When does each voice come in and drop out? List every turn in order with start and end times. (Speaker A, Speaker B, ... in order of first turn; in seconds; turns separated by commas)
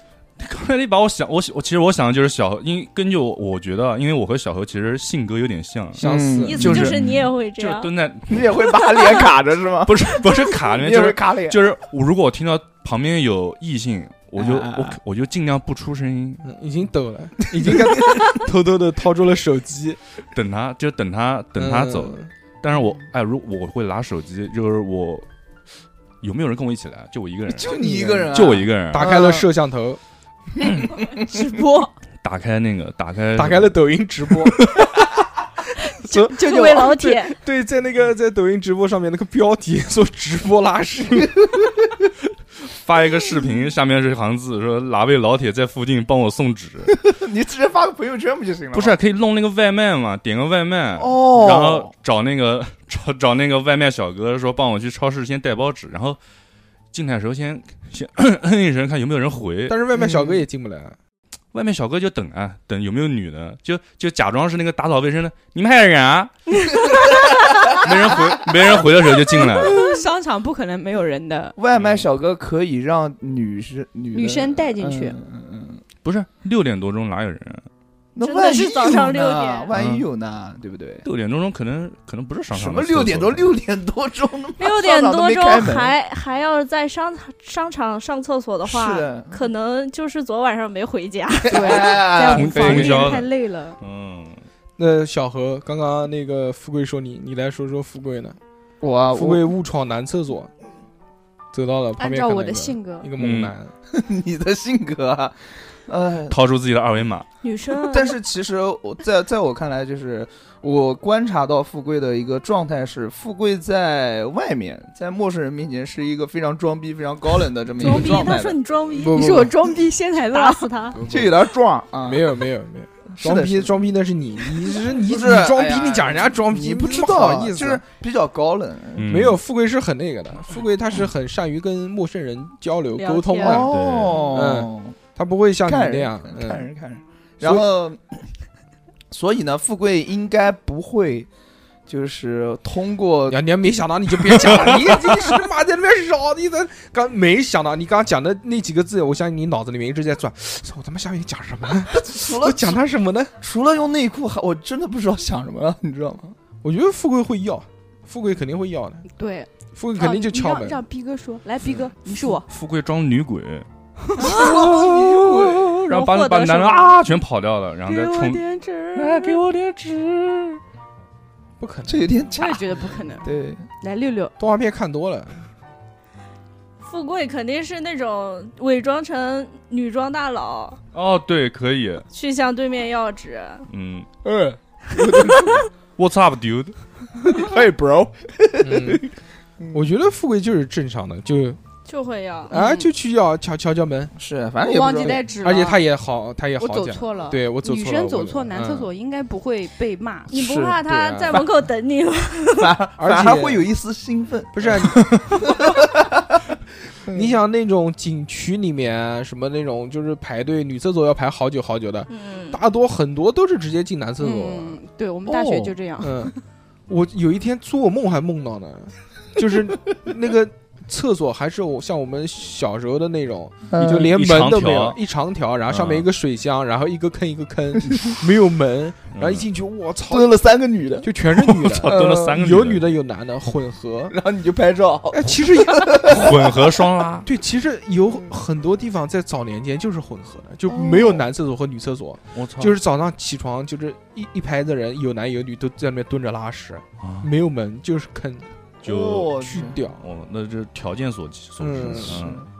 Speaker A: 0.4-6.0, Speaker B: 6.0-6.8, Speaker C: 6.0-6.9, Speaker D: 6.4-7.9, Speaker A: 6.6-9.2, Speaker C: 8.3-11.6, Speaker A: 9.8-16.5, Speaker C: 14.4-15.0, Speaker B: 16.4-20.0, Speaker A: 20.3-25.3, Speaker B: 21.6-22.3, Speaker A: 26.2-29.2, Speaker C: 27.5-29.3, Speaker B: 27.7-28.3, Speaker B: 28.9-30.0, Speaker E: 31.1-31.9, Speaker A: 32.2-33.8, Speaker B: 33.3-34.7, Speaker B: 36.0-41.3, Speaker E: 36.1-37.2, Speaker D: 36.3-37.3, Speaker C: 41.2-41.5, Speaker A: 42.7-46.9, Speaker C: 47.0-49.0, Speaker A: 48.7-56.2, Speaker C: 51.0-51.9, Speaker A: 56.9-59.8, Speaker B: 59.7-61.0, Speaker C: 60.0-60.4, Speaker A: 61.5-67.1, Speaker A: 67.7-69.9, Speaker E: 69.5-71.5, Speaker C: 71.6-75.8, Speaker A: 71.7-72.1, Speaker E: 74.1-75.2, Speaker A: 76.0-77.7, Speaker C: 78.1-81.0, Speaker D: 78.2-79.7, Speaker A: 79.7-80.0, Speaker A: 81.0-83.5, Speaker C: 82.5-85.9, Speaker D: 84.6-92.1, Speaker C: 88.6-89.3, Speaker C: 91.5-92.5, Speaker E: 91.5-93.8, Speaker A: 92.3-94.4, Speaker B: 92.6-93.0, Speaker D: 92.6-93.2, Speaker B: 94.8-98.4, Speaker C: 98.8-99.5, Speaker B: 99.1-100.5, Speaker B: 101.5-103.7, Speaker E: 102.0-103.1, Speaker A: 103.2-103.5, Speaker C: 103.9-105.3, Speaker C: 105.9-106.4, Speaker A: 106.3-107.3, Speaker D: 107.4-108.2, Speaker C: 107.8-118.6, Speaker D: 117.8-119.4, Speaker E: 117.8-118.3, Speaker B: 119.0-119.5, Speaker E: 119.0-120.7, Speaker D: 120.2-121.0, Speaker B: 120.9-121.3, Speaker C: 121.0-122.3, Speaker B: 122.0-127.8, Speaker C: 123.1-123.7, Speaker C: 125.0-129.1, Speaker A: 129.0-129.4, Speaker B: 129.1-133.7, Speaker D: 132.9-133.6, Speaker C: 133.4-134.9, Speaker A: 133.7-134.4, Speaker B: 134.3-136.7, Speaker C: 135.7-138.2, Speaker C: 139.1-141.3, Speaker C: 141.9-143.4, Speaker B: 143.3-153.3, Speaker C: 151.9-152.8, Speaker C: 153.4-156.3, Speaker B: 156.6-159.1, Speaker E: 159.1-162.4, Speaker B: 159.8-160.8, Speaker A: 162.2-163.7, Speaker E: 164.0-164.4, Speaker D: 164.2-164.9, Speaker C: 164.2-165.8, Speaker A: 164.2-168.4, Speaker D: 165.9-167.0, Speaker E: 167.9-169.4, Speaker A: 168.9-170.6, Speaker B: 171.6-172.2, Speaker C: 171.9-172.6, Speaker E: 172.3-174.3, Speaker C: 173.2-173.7, Speaker B: 174.4-175.4, Speaker D: 176.8-180.8, Speaker A: 180.9-182.1, Speaker D: 182.1-183.7, Speaker A: 183.7-184.1, Speaker C: 184.2-185.6, Speaker A: 186.0-186.8, Speaker C: 187.3-189.0, Speaker B: 188.6-189.0, Speaker B: 189.7-191.6, Speaker D: 191.8-192.6, Speaker B: 192.5-194.1, Speaker E: 192.5-192.8, Speaker C: 194.2-195.3, Speaker E: 194.6-195.9, Speaker B: 194.9-198.9, Speaker E: 196.6-200.3, Speaker D: 200.3-202.7, Speaker C: 200.3-200.8, Speaker B: 200.8-201.5, Speaker C: 202.6-206.4, Speaker B: 203.0-203.7, Speaker B: 204.5-205.1, Speaker B: 207.1-214.8, Speaker D: 212.1-212.6, Speaker E: 214.2-216.4, Speaker C: 215.3-215.7, Speaker B: 216.0-216.3, Speaker B: 216.9-230.4, Speaker C: 223.7-224.1, Speaker A: 223.9-225.0, Speaker A: 225.7-226.1, Speaker A: 229.1-229.4, Speaker C: 230.1-231.1, Speaker B: 231.0-234.1, Speaker A: 231.4-232.8, Speaker C: 231.8-232.4, Speaker C: 234.1-236.6, Speaker B: 235.1-236.1, Speaker A: 236.0-237.3, Speaker B: 237.2-248.5, Speaker C: 240.7-241.2, Speaker A: 242.3-242.8, Speaker A: 247.0-247.3, Speaker C: 248.8-249.8, Speaker A: 248.8-252.4, Speaker B: 249.4-250.0, Speaker B: 251.6-252.2, Speaker C: 252.0-252.4